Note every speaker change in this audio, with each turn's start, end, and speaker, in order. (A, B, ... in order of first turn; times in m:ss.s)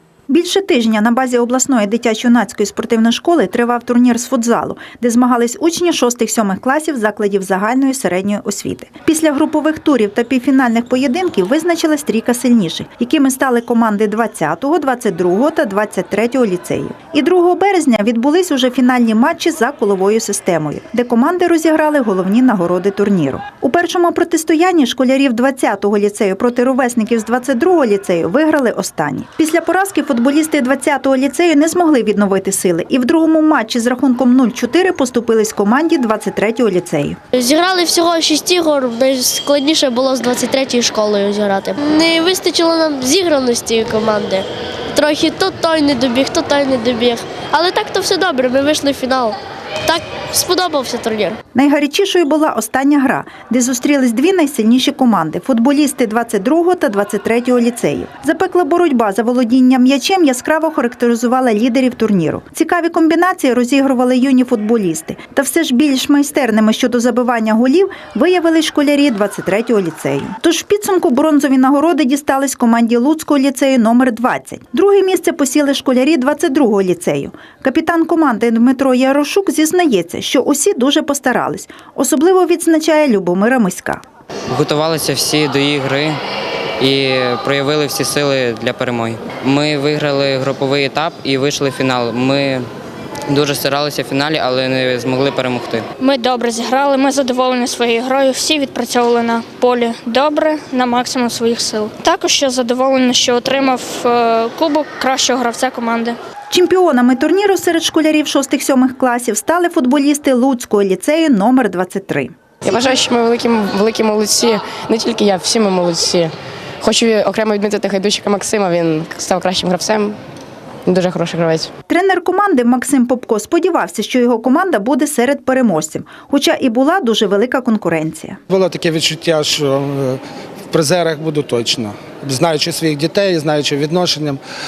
0:00.3-0:37.2 A
0:37.4-0:51.4 B
0:51.6-1:24.0 A
1:24.5-1:26.2 C
1:26.8-1:32.6 C
1:33.3-1:35.8 C
1:36.0-1:46.2 D
1:46.5-1:52.3 A
1:52.6-2:00.2 E
2:00.9-2:01.7 E
2:01.9-2:08.4 A
2:08.5-2:10.2 F
2:10.7-2:14.4 F